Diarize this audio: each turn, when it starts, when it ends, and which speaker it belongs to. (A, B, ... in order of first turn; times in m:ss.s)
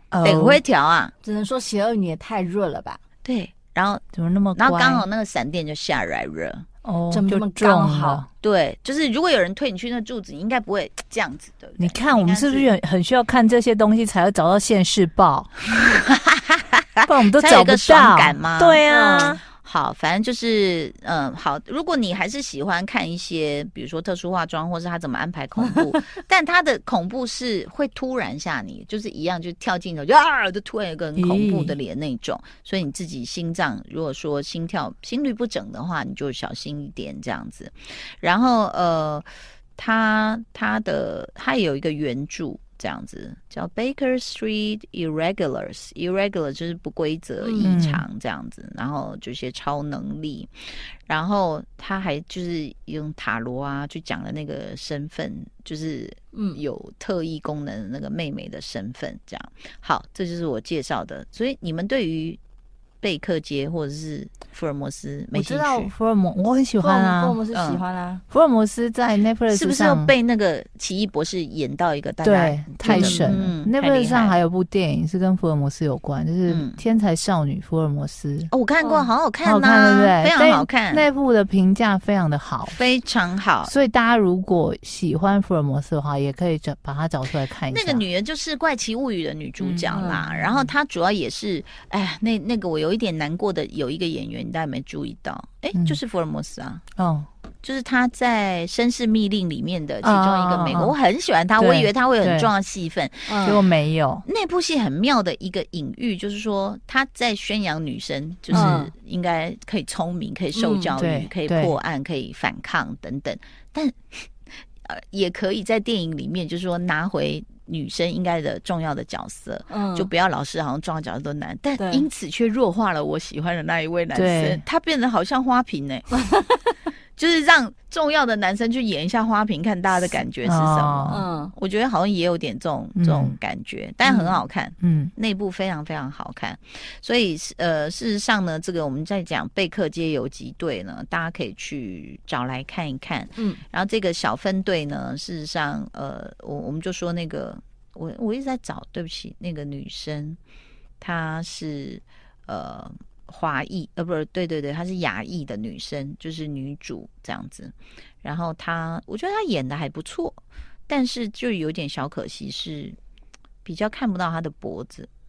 0:00.1-0:00.6 A
0:00.2-0:01.1 B
0:01.2-0:03.0 C
0:03.2-0:04.0 B
0:04.1-0:05.0 A
0:04.6-0:06.6 B
0:06.8-0:08.3 A
0:07.1-0:08.2 C
0:08.4-0:12.7 B
0:11.8-0:15.5 A
0:15.7-0:18.8 B
0:17.0-0:19.4 A
0:18.9-0:19.4 C
0:19.4-1:02.4 B
0:31.2-0:31.7 A
0:47.4-0:47.8 C
0:47.6-0:48.0 A
0:56.3-0:56.6 C
1:03.0-1:05.9 B
1:05.3-1:07.4 A
1:06.8-1:08.2 C
1:07.5-1:07.8 B
1:08.3-1:10.1 A
1:09.5-1:14.4 B
1:12.2-1:18.5 A
1:12.8-1:13.3 C
1:16.5-1:16.8 B
1:18.5-1:21.1 B
1:18.8-1:19.1 C
1:19.4-1:22.8 A
1:22.6-1:23.7 B
1:23.6-1:28.0 A
1:27.7-1:36.8 B
1:29.6-1:30.6 A
1:29.9-1:30.2 C
1:37.0-1:37.3 A
1:37.6-1:43.6 B
1:40.0-1:40.9 A
1:41.6-1:42.5 A
1:43.3-1:43.6 C
1:43.4-1:44.2 A
1:44.2-1:54.3 B
1:48.5-1:48.8 A
1:48.5-1:48.9 C
1:50.5-1:50.9 C
1:51.0-1:51.7 A
1:54.8-2:06.1 B
1:59.7-2:00.1 C
2:01.8-2:02.1 C
2:04.1-2:04.6 A
2:06.2-2:06.6 C
2:07.2-2:30.4 B
2:10.4-2:11.2 A
2:11.1-2:11.5 C
2:13.0-2:13.4 A
2:14.0-2:14.4 C
2:14.8-2:15.1 A
2:23.4-2:23.6 C
2:31.0-2:43.0 B
2:43.6-2:45.1 B